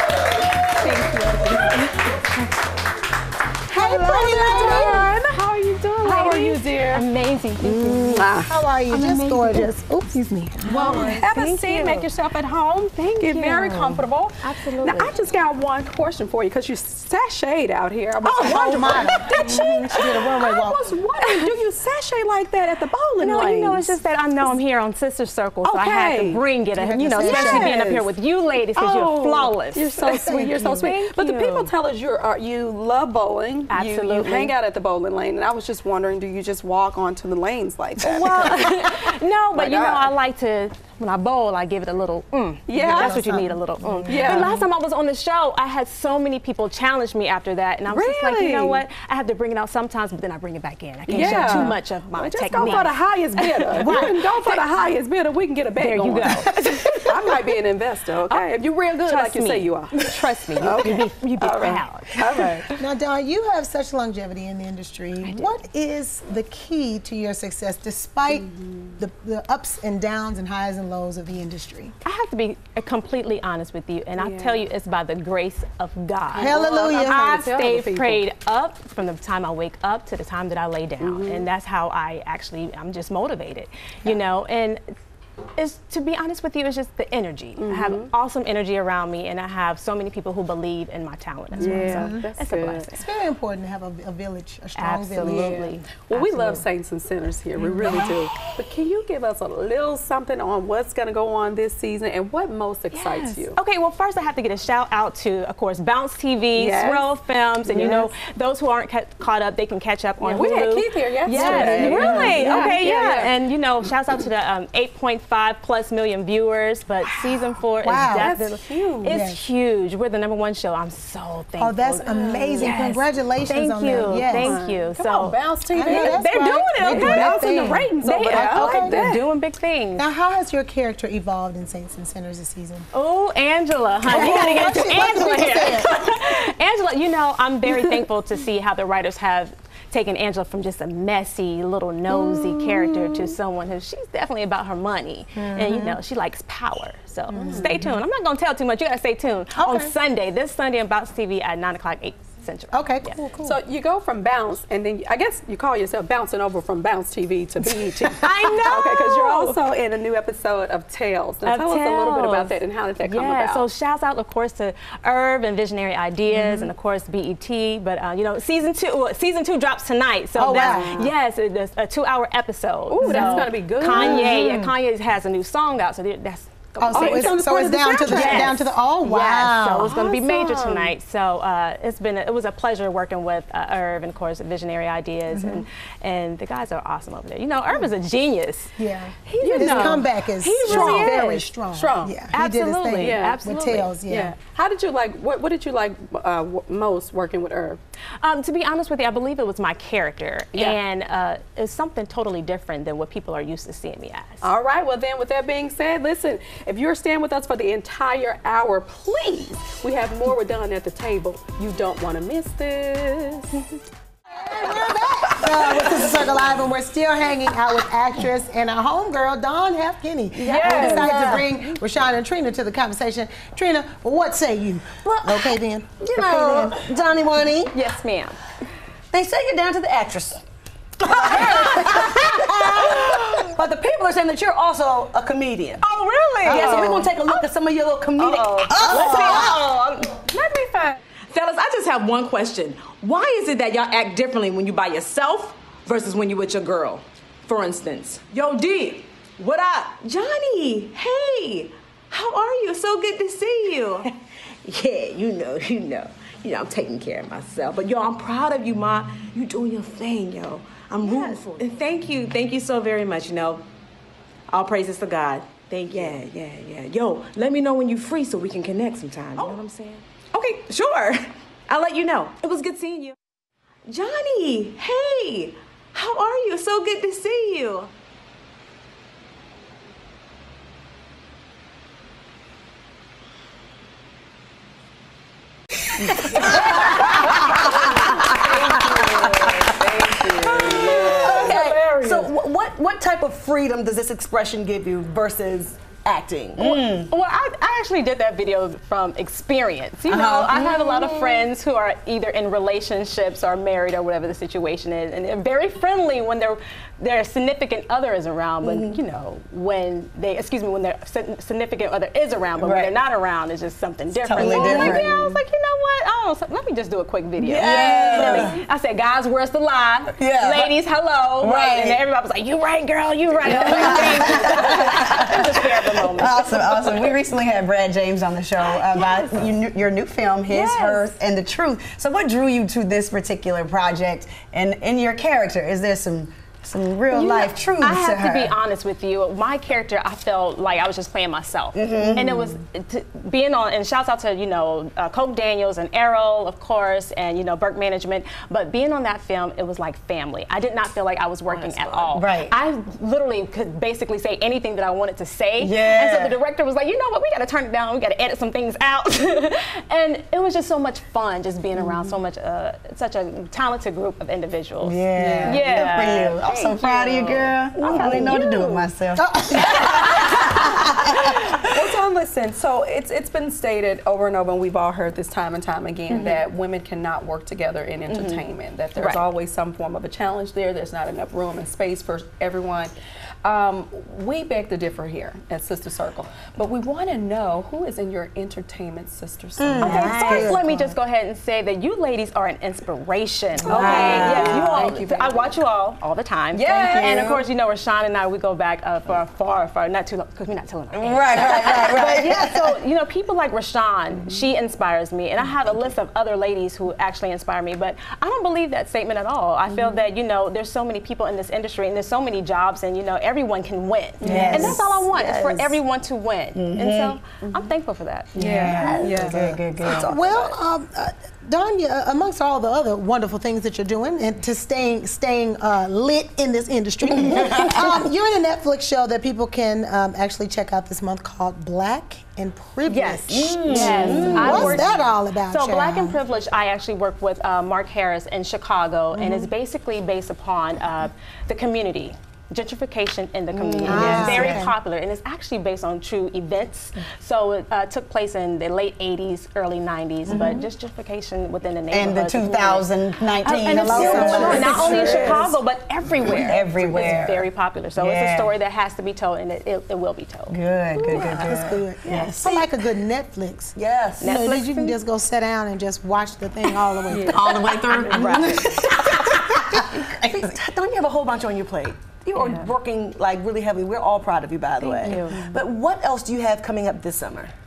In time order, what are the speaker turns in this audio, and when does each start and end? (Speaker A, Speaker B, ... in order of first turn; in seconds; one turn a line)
Speaker A: 0.7-2.5
Speaker B: 3.7-7.0
Speaker C: 3.7-5.1
Speaker A: 4.4-5.0
Speaker A: 6.0-15.2
Speaker C: 7.6-10.3
Speaker B: 8.1-8.5
Speaker B: 10.6-12.6
Speaker B: 13.2-24.0
Speaker C: 18.2-20.9
Speaker A: 21.2-21.5
Speaker A: 23.2-30.1
Speaker B: 25.6-28.1
Speaker C: 26.8-27.8
Speaker B: 28.7-40.1
Speaker C: 30.1-30.9
Speaker A: 30.7-31.7
Speaker A: 33.7-34.5
Speaker A: 38.0-54.8
Speaker B: 42.7-43.2
Speaker C: 42.7-44.5
Speaker B: 44.0-44.6
Speaker B: 47.9-48.8
Speaker B: 51.1-62.7
Speaker C: 51.3-51.6
Speaker C: 53.8-54.2
Speaker A: 55.8-57.1
Speaker A: 59.0-62.8
Speaker C: 62.8-71.9
Speaker A: 65.2-65.5
Speaker B: 68.3-68.9
Speaker A: 72.0-84.8
Speaker B: 74.2-74.7
Speaker C: 76.3-77.5
Speaker B: 76.3-78.2
Speaker B: 81.0-81.5
Speaker A: 85.6-93.0
Speaker B: 87.6-88.1
Speaker C: 91.5-92.3
Speaker B: 91.6-93.0
Speaker C: 93.0-95.5
Speaker A: 94.8-96.6
Speaker B: 95.2-103.5
Speaker A: 97.8-98.1
Speaker A: 102.9-130.1
Speaker B: 106.5-107.1
Speaker B: 107.6-108.1
Speaker B: 110.2-113.3
Speaker C: 111.3-112.8
Speaker C: 117.8-118.4
Speaker B: 118.1-119.2
Speaker C: 119.0-119.4
Speaker C: 121.6-124.6
Speaker B: 122.0-122.8
Speaker B: 124.3-129.3
Speaker C: 125.7-129.0
Speaker C: 130.0-132.9
Speaker A: 132.9-153.2
Speaker C: 134.1-135.9
Speaker B: 134.1-134.9
Speaker B: 142.3-143.3
Speaker C: 145.3-146.0
Speaker C: 147.3-148.0
Speaker B: 147.3-147.8
Speaker C: 149.5-149.9
Speaker C: 152.7-153.6
Speaker B: 153.4-163.7
Speaker A: 158.2-159.6
Speaker A: 161.4-191.5
Speaker B: 166.3-166.7
Speaker C: 170.3-171.1
Speaker B: 170.4-171.1
Speaker B: 172.9-174.7
Speaker C: 173.0-174.3
Speaker C: 176.8-179.9
Speaker B: 176.9-178.6
Speaker B: 179.8-180.9
Speaker C: 185.3-185.6
Speaker C: 188.8-194.3
Speaker B: 189.4-190.1
Speaker B: 190.6-192.2
Speaker A: 192.3-193.9
Speaker B: 193.0-193.4
Speaker B: 194.1-197.8
Speaker A: 198.2-204.5
Speaker B: 200.5-200.8
Speaker B: 204.4-213.6
Speaker C: 214.3-226.9
Speaker B: 220.3-221.1
Speaker A: 220.4-221.4
Speaker D: 220.8-221.3
Speaker D: 226.0-226.9
Speaker E: 226.7-227.7
Speaker A: 227.7-228.4
Speaker E: 229.1-230.4
Speaker E: 231.0-235.8
Speaker A: 231.3-232.0
Speaker D: 231.7-232.2
Speaker A: 232.7-233.5
Speaker A: 235.8-237.1
Speaker E: 236.4-239.6
Speaker C: 236.6-236.9
Speaker A: 238.2-240.9
Speaker C: 238.7-239.5
Speaker D: 239.0-239.3
Speaker B: 240.6-240.9
Speaker D: 241.3-254.1
Speaker D: 254.6-263.6
Speaker D: 264.5-273.1
Speaker D: 273.9-277.9
Speaker D: 286.1-288.1
Speaker B: 287.5-291.6
Speaker A: 288.3-288.8
Speaker D: 290.6-292.3
Speaker E: 291.0-296.7
Speaker F: 296.6-297.1
Speaker A: 296.6-327.1
Speaker F: 300.1-301.1
Speaker F: 308.6-309.0
Speaker F: 312.6-312.9
Speaker F: 314.2-315.4
Speaker C: 314.4-314.9
Speaker F: 317.4-318.6
Speaker B: 317.9-318.4
Speaker F: 320.2-320.7
Speaker F: 321.4-322.0
Speaker F: 323.4-325.3
Speaker F: 326.1-338.5
Speaker A: 328.9-329.3
Speaker A: 330.5-331.2
Speaker A: 337.1-368.9
Speaker F: 341.7-342.5
Speaker F: 352.1-352.5
Speaker F: 355.6-356.4
Speaker F: 364.8-370.2
Speaker C: 369.1-370.8
Speaker A: 369.6-370.3
Speaker B: 369.8-382.9
Speaker A: 376.1-376.4
Speaker A: 378.1-378.4
Speaker A: 378.9-379.2
Speaker B: 383.4-390.3
Speaker F: 389.6-390.6
Speaker A: 389.8-420.6
Speaker C: 389.9-390.9
Speaker B: 393.6-395.5
Speaker F: 393.7-394.9
Speaker D: 393.8-394.2
Speaker B: 396.5-397.2
Speaker F: 396.7-397.4
Speaker F: 400.9-402.7
Speaker C: 401.9-402.5
Speaker B: 409.7-409.9
Speaker B: 414.2-415.8
Speaker F: 414.2-415.0
Speaker C: 414.3-414.6
Speaker F: 416.5-417.2
Speaker B: 417.4-417.7
Speaker F: 418.3-420.2
Speaker B: 418.3-419.5
Speaker C: 419.3-436.2
Speaker F: 427.4-427.9
Speaker D: 432.9-433.2
Speaker F: 433.3-434.9
Speaker A: 433.7-452.9
Speaker C: 439.1-439.5
Speaker F: 443.5-444.6
Speaker C: 443.8-444.7
Speaker F: 450.3-450.7
Speaker F: 451.9-455.4
Speaker A: 453.4-461.5
Speaker C: 453.7-455.5
Speaker D: 453.9-455.4
Speaker F: 456.2-458.5
Speaker F: 460.5-462.6
Speaker C: 461.2-467.6
Speaker E: 463.8-464.5
Speaker A: 464.2-465.0
Speaker B: 467.1-467.4
Speaker F: 467.2-470.5
Speaker A: 467.9-468.9
Speaker E: 470.2-477.5
Speaker A: 472.4-472.7
Speaker A: 474.8-475.5